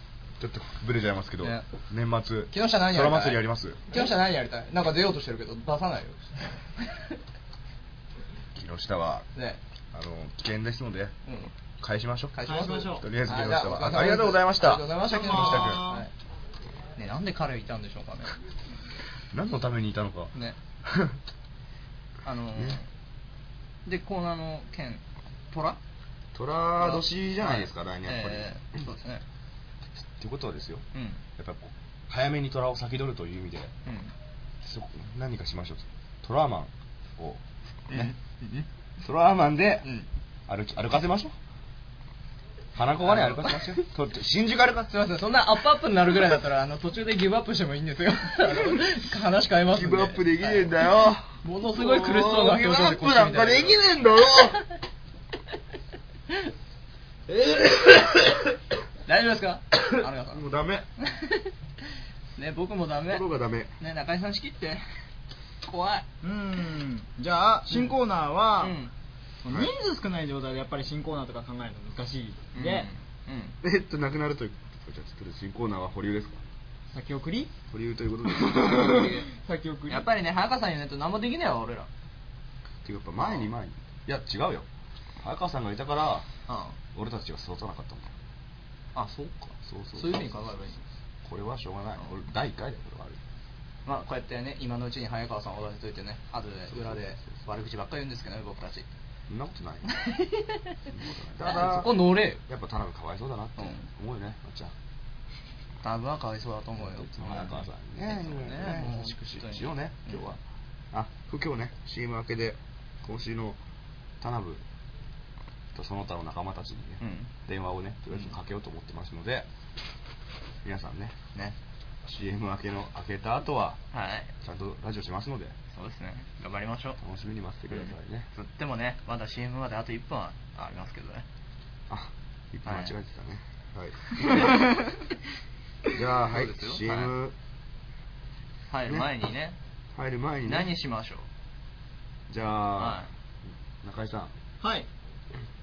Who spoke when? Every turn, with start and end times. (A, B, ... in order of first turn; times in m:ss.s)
0:00.4-0:04.0 A
0:02.5-0:06.3 B
0:08.5-0:09.3 A
0:09.9-0:11.1 A
0:11.2-0:11.5 B
0:11.8-0:15.9 A
0:12.3-0:16.1 B
0:12.4-0:13.1 C
0:15.0-0:16.0 C
0:17.0-0:18.4 B
0:19.3-0:20.3 A
0:20.8-0:21.2 A
0:22.2-0:22.9 B
0:23.8-0:25.8 B
0:26.3-0:28.5 A
0:26.8-0:29.2 B
0:30.2-0:30.8 A
0:30.9-0:31.2 B
0:31.4-0:33.7 A
0:33.8-0:34.1 B
0:34.6-0:38.1 A
0:37.9-0:38.6 B
0:39.0-0:39.9 A
0:40.5-0:41.3 A
0:42.7-0:44.9 A
0:43.0-0:43.8 B
0:44.9-0:50.7 B
0:49.7-0:54.6 A
0:51.4-0:53.8 B
0:59.0-1:00.4 B
1:00.3-1:00.8 A
1:01.0-1:01.4 B
1:02.4-1:03.2 B
1:03.1-1:03.7 A
1:03.8-1:04.8 B
1:05.6-1:06.0 B
1:06.2-1:08.8 C
1:08.6-1:08.9 B
1:09.4-1:12.9 C
1:09.5-1:09.7 A
1:12.5-1:13.6 B
1:13.6-1:16.4 A
1:16.9-1:17.5 C
1:17.7-1:19.0 A
1:18.5-1:20.1 C
1:18.7-1:19.3 B
1:19.9-1:21.9 B
1:22.8-1:24.7 A
1:23.2-1:23.5 B
1:25.2-1:26.3 A
1:26.5-1:26.8 B
1:26.9-1:28.1 A
1:28.9-1:30.8 B
1:29.6-1:30.5 A
1:31.2-1:33.2 A
1:33.8-1:38.8 B
1:36.7-1:37.4 A
1:39.3-1:39.9 A
1:40.9-1:44.7 A
1:41.4-1:42.4 B
1:43.6-1:43.9 B
1:45.8-1:50.4 B
1:46.8-1:50.4 A
1:50.9-1:53.6 A
1:54.2-1:54.6 A
1:55.7-1:59.5 A
1:57.0-1:57.3 B
2:00.6-2:01.2 A
2:02.0-2:03.8 A
2:03.9-2:04.3 B
2:04.4-2:05.5 A
2:05.7-2:07.0 B
2:07.0-2:08.3 A
2:07.7-2:11.2 B
2:11.9-2:14.6 A
2:12.6-2:12.9 B
2:15.9-2:17.3 A
2:16.2-2:17.1 B
2:18.7-2:19.6 B
2:19.9-2:20.7 A
2:20.4-2:21.3 B
2:22.3-2:23.0 A
2:22.8-2:23.1 B
2:23.8-2:24.3 A
2:24.6-2:24.9 C